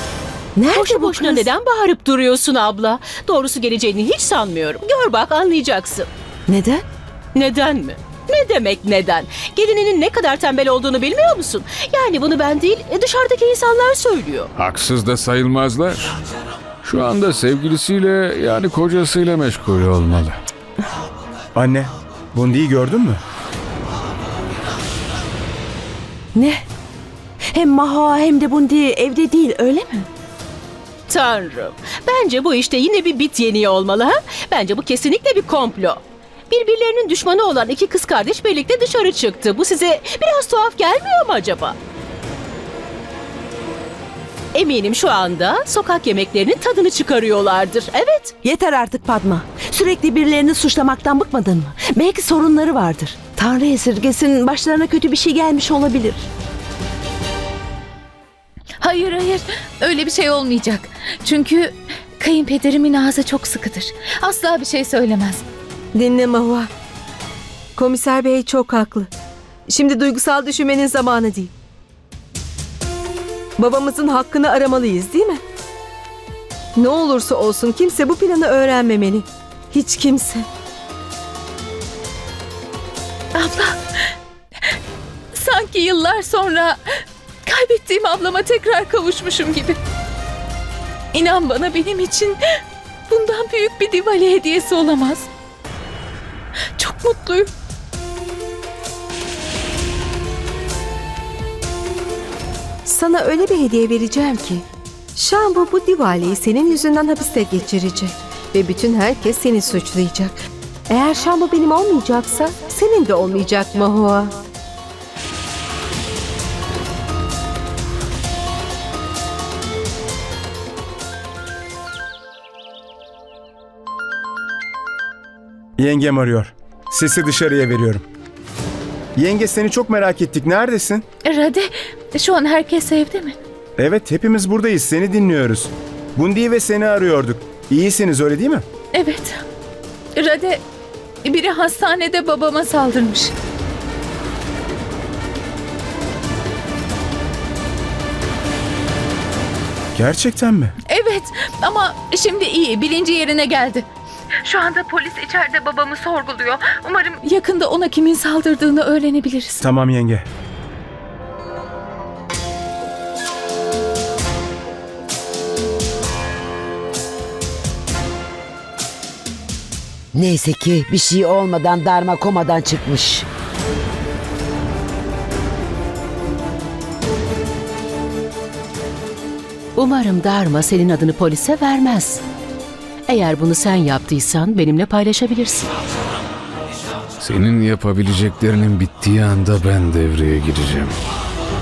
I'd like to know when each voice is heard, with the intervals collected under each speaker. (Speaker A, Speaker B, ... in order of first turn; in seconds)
Speaker A: 0.6-1.5, 6.5-6.8, 26.4-26.6, 27.5-30.1, 48.4-56.3
Speaker B: 0.6-6.1, 7.3-14.5, 31.1-41.8, 44.5-48.4, 179.8-182.2, 183.1-185.7
Speaker C: 14.6-16.2, 16.8-20.4, 187.2-190.9
Speaker D: 21.6-23.2, 125.8-128.0, 129.2-131.0, 133.8-138.6, 149.9-150.8, 159.6-160.3
Speaker E: 58.8-65.4, 83.3-84.1, 85.3-86.8, 87.5-89.8, 91.1-92.4, 93.1-95.3, 96.8-97.5, 131.2-133.4, 138.9-139.4, 140.2-140.6, 141.2-143.3, 150.9-153.9, 154.4-159.6
Speaker F: 66.0-66.7, 67.8-69.1, 69.7-71.5, 73.6-75.4, 76.8-80.5, 102.9-110.4, 110.9-114.3
Speaker G: 170.1-173.3